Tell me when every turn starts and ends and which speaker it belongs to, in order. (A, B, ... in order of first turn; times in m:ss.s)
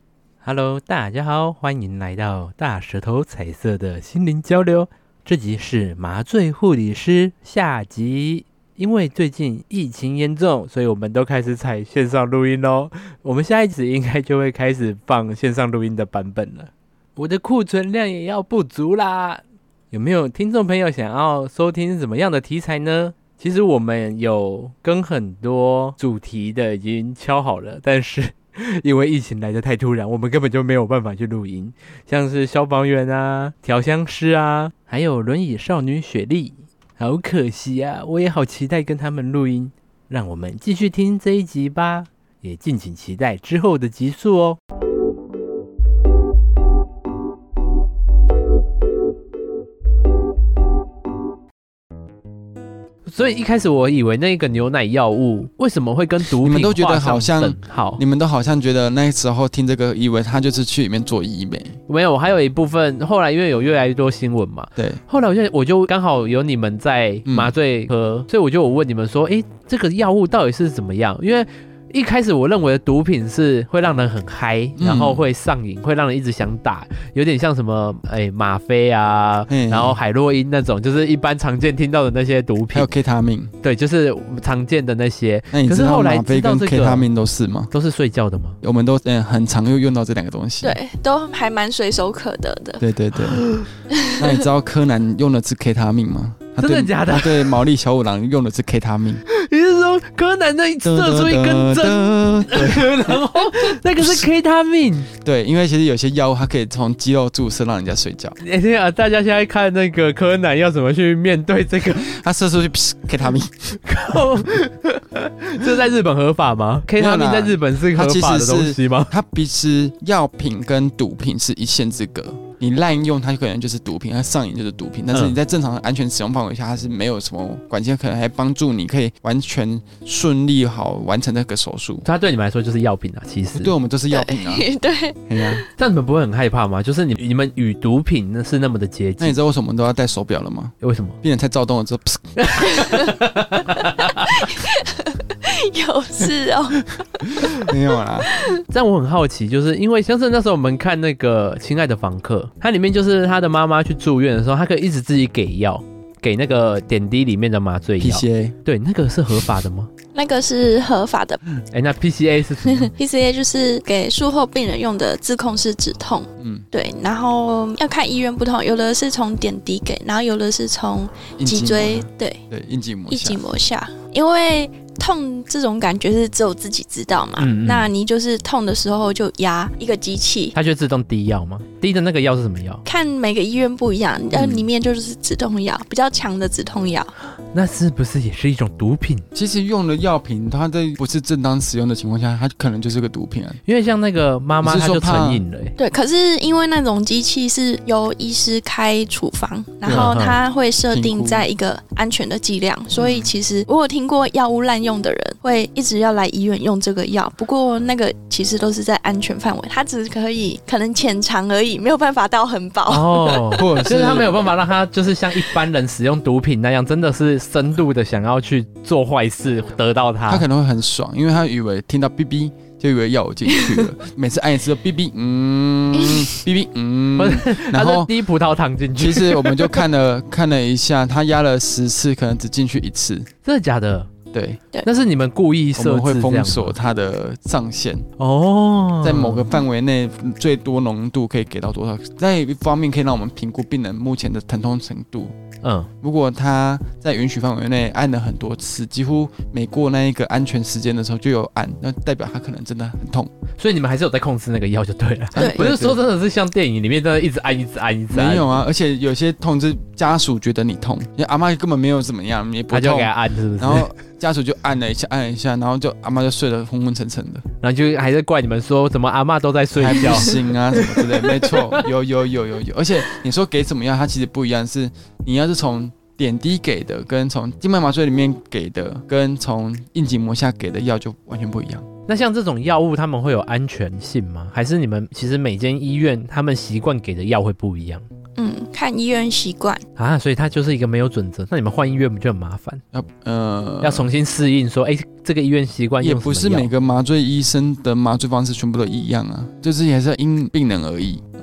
0:00.4-0:44.6 A
0:53.1-0:58.0 A
0:56.4-1:01.8 B
1:01.9-1:22.9 A
1:04.8-1:05.0 B
1:07.3-1:07.5 B
1:14.8-1:15.3 B
1:19.5-1:20.0 B
1:22.7-1:23.5 B
1:23.6-1:27.1 A
1:25.5-1:27.7 B
1:27.7-1:28.6 A
1:28.6-1:30.8 B
1:30.6-1:32.8 C
1:32.8-1:39.2 B
1:33.3-1:33.7 A
1:33.9-1:34.4 C
1:36.6-1:37.6 A
1:39.3-1:45.1 A
1:40.8-1:44.3 B
1:45.2-1:48.4 B
1:48.4-1:52.1 A
1:52.0-1:53.8 B
1:53.8-1:59.1 A
1:57.0-2:12.1 B
2:05.1-2:05.4 A
2:12.0-2:13.7 A
2:13.6-2:14.7 B
2:14.1-2:15.6 C
2:15.3-2:15.6 B
2:15.8-2:19.4 A
2:19.2-2:23.0 B
2:20.8-2:21.2 A
2:22.4-2:24.5 A
2:22.8-2:23.1 C
2:24.3-2:27.0 C
2:27.2-2:28.3 B
2:28.3-2:28.6 C
2:28.7-2:39.9 A
2:38.0-2:38.6 B
2:40.2-2:41.4 C
2:41.7-2:42.9 A
2:42.7-2:52.4 C
2:46.4-2:46.7 B
2:51.4-2:53.4 B
2:53.1-3:00.5 C
2:57.4-2:57.9 A
3:00.5-3:02.8 A
3:02.9-3:07.1 C
3:07.5-3:09.3 A
3:09.3-3:13.6 B
3:13.7-3:15.8 A
3:14.6-3:15.4 B
3:15.8-3:33.6 C
3:19.8-3:20.2 B
3:19.9-3:20.4 A
3:20.9-3:21.5 B
3:23.0-3:23.3 B
3:32.9-3:40.4 A
3:33.5-3:34.5 B
3:40.3-3:48.1 B
3:47.2-3:49.8 A
3:49.0-3:53.3 B
3:53.4-3:54.1 A
3:54.3-3:54.6 B
3:54.8-3:56.8 A
3:55.8-3:58.1 B
3:58.2-3:59.6 A
3:59.0-4:05.3 B
4:05.6-4:05.9 A
4:06.0-4:13.3 B
4:13.6-4:18.5 A
4:15.4-4:16.0 B
4:15.4-4:15.6 C
4:18.1-4:27.4 B
4:22.7-4:23.9 A
4:27.6-4:31.9 A
4:29.7-4:41.9 B
4:42.1-4:48.0 A
4:48.4-4:49.8 C
4:50.0-4:52.8 A
4:52.9-4:54.1 B
4:53.8-4:56.7 A
4:56.0-5:01.3 B